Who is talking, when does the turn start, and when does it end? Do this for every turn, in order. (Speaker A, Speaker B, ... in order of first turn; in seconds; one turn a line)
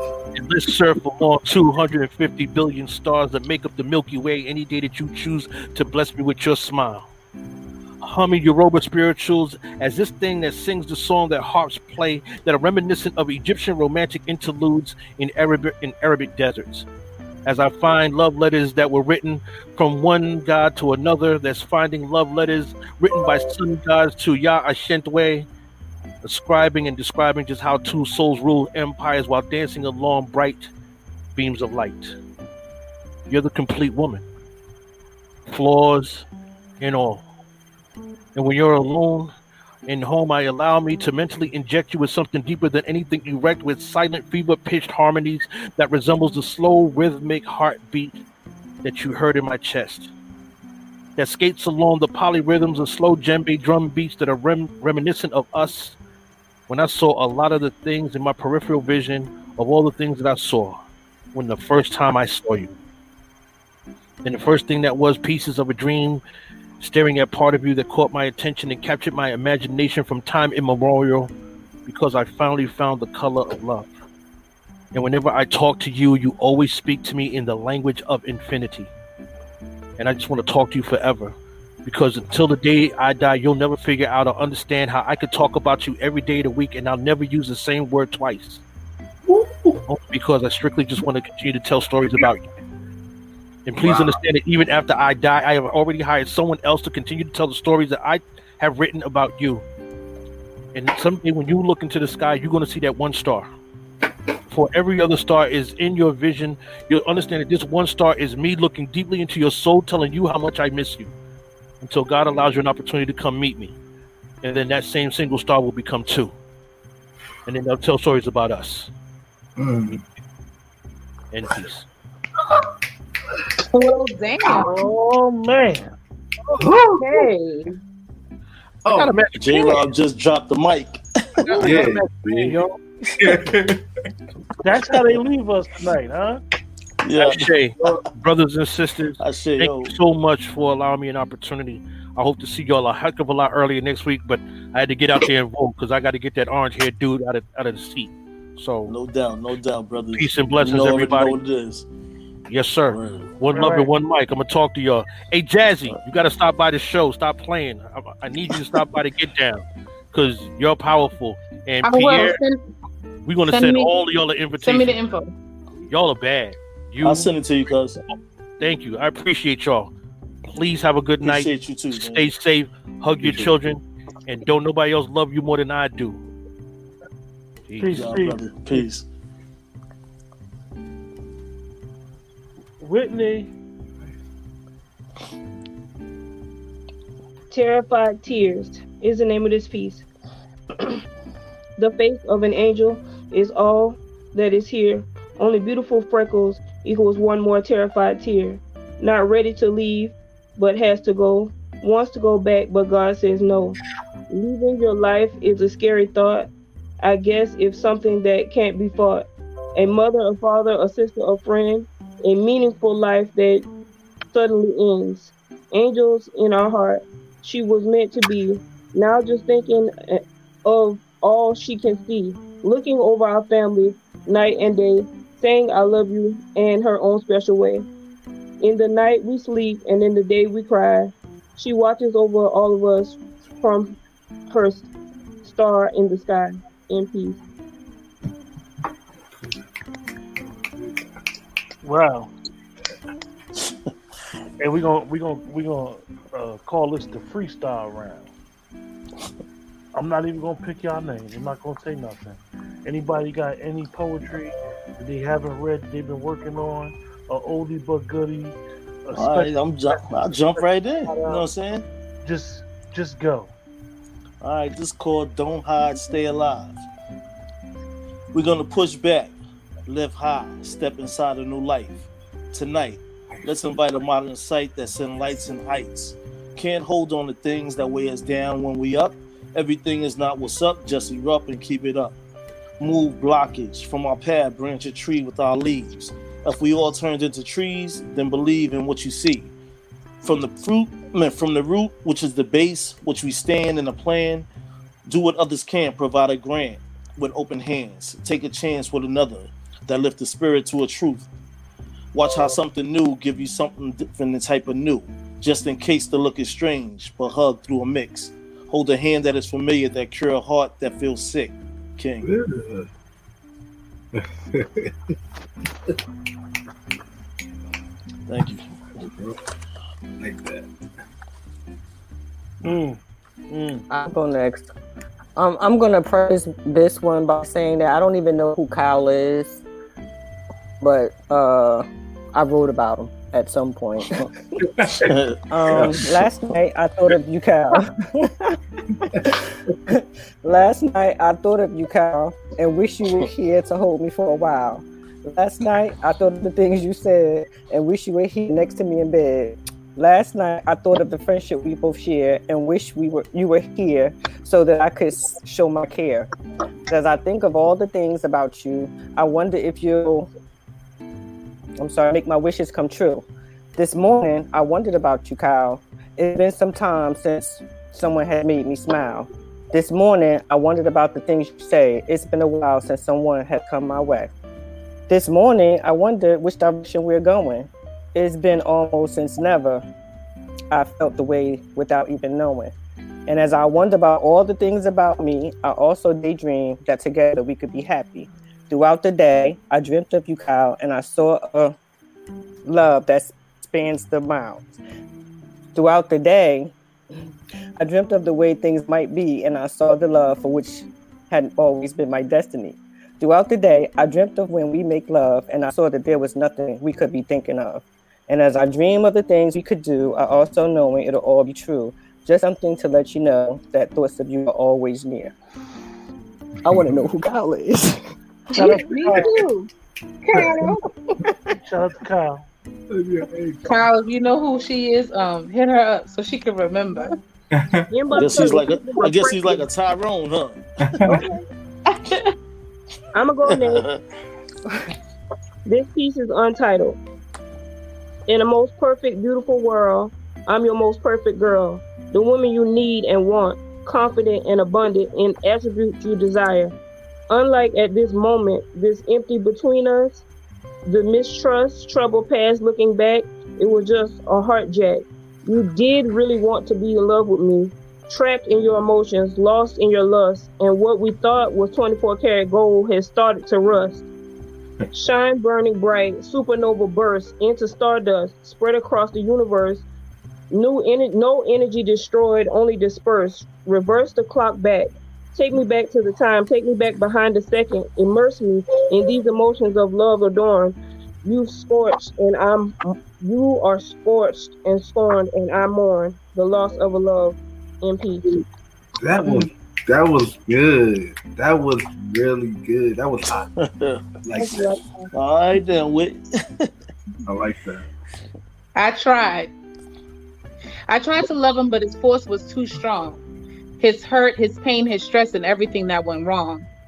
Speaker A: 0.3-7.1
Speaker A: 8.0-16.9
Speaker A: 17.4-25.5
Speaker A: 26.2-30.7
Speaker A: 31.3-32.2
Speaker A: 33.3-34.2
Speaker A: 35.5-36.2
Speaker A: 36.8-37.2
Speaker A: 38.3-39.3
Speaker A: 39.9-48.2
Speaker A: 48.8-50.1
Speaker A: 51.2-56.0
Speaker A: 56.7-60.8
Speaker A: 61.3-62.7
Speaker A: 64.2-66.2
Speaker A: 66.8-71.3
Speaker A: 71.8-73.9
Speaker A: 74.9-78.9
Speaker A: 80.0-88.6
Speaker B: 89.2-89.8
Speaker A: 89.9-92.5
Speaker A: 93.7-99.6
Speaker B: 93.8-94.2
Speaker A: 100.7-103.5
Speaker A: 104.5-111.1
Speaker A: 111.8-113.8
Speaker A: 114.4-116.3
Speaker A: 117.5-118.9
Speaker B: 119.6-120.0
Speaker A: 121.3-121.9
Speaker C: 123.7-124.8
Speaker D: 124.5-125.9
Speaker B: 126.5-127.3
Speaker E: 127.0-127.8
Speaker B: 128.8-129.2
Speaker A: 128.9-129.9
Speaker F: 129.3-131.4
Speaker A: 131.4-132.8
Speaker B: 131.6-132.6
Speaker B: 133.2-133.8
Speaker D: 134.6-136.4
Speaker F: 137.0-138.0
Speaker A: 137.2-148.9
Speaker F: 139.2-139.9
Speaker F: 148.9-151.8
Speaker A: 150.1-151.4
Speaker A: 152.5-162.4
Speaker F: 152.9-153.3
Speaker D: 153.5-153.9
Speaker C: 161.8-162.6
Speaker A: 163.2-165.0
Speaker C: 163.5-163.9
Speaker C: 164.6-165.3
Speaker A: 165.9-169.9
Speaker F: 167.0-168.0
Speaker A: 170.4-176.2
Speaker F: 171.2-172.3
Speaker F: 173.2-173.6
Speaker A: 177.7-178.1
Speaker D: 177.8-178.8
Speaker F: 177.9-179.1
Speaker D: 182.8-183.5
Speaker E: 187.5-190.0
Speaker E: 191.8-203.8
Speaker E: 204.3-206.5
Speaker E: 207.0-213.7
Speaker E: 214.3-227.8
Speaker E: 228.6-234.0
Speaker E: 234.5-234.9
Speaker E: 235.4-237.4
Speaker D: 241.8-242.3
Speaker D: 244.6-248.3
Speaker D: 249.9-261.4
Speaker F: 259.1-261.9
Speaker D: 262.2-263.5
Speaker F: 264.4-266.8
Speaker F: 268.3-282.2
Speaker F: 282.8-289.5
Speaker F: 290.2-294.5
Speaker F: 295.0-301.3
Speaker F: 302.1-312.3
Speaker B: 312.2-312.9
Speaker B: 314.1-314.9
Speaker F: 318.3-318.6
Speaker B: 320.2-320.7
Speaker D: 322.6-323.8
Speaker G: 323.9-324.7
Speaker G: 325.4-329.6
Speaker G: 330.8-334.3
Speaker B: 334.8-335.1
Speaker F: 335.1-335.9
Speaker G: 335.5-338.6
Speaker G: 339.9-356.3
Speaker G: 356.9-360.3
Speaker G: 361.8-374.3
Speaker G: 375.1-379.8
Speaker G: 380.7-382.7
Speaker G: 383.3-391.7
Speaker G: 392.6-394.7
Speaker G: 395.7-396.7
Speaker G: 397.8-415.3
Speaker G: 416.6-418.0
Speaker B: 416.7-417.0
Speaker D: 418.6-419.4
Speaker C: 418.6-419.5
Speaker C: 420.3-420.8
Speaker B: 420.3-420.7
Speaker D: 421.6-422.5
Speaker B: 422.9-423.7
Speaker C: 423.7-427.1
Speaker B: 427.5-427.9
Speaker E: 427.9-429.7
Speaker F: 428.1-431.1
Speaker B: 431.0-431.3
Speaker E: 433.1-433.9
Speaker F: 433.4-434.0
Speaker E: 435.6-437.0
Speaker E: 438.3-446.7
Speaker E: 447.3-450.2
Speaker E: 450.9-464.0
Speaker E: 464.9-469.9
Speaker E: 470.5-488.3
Speaker B: 489.0-493.4
Speaker F: 493.6-494.0
Speaker B: 494.2-494.8
Speaker E: 494.3-495.1
Speaker F: 495.1-496.7
Speaker B: 497.2-497.9
Speaker C: 498.7-499.5
Speaker C: 500.9-503.2
Speaker C: 503.8-506.7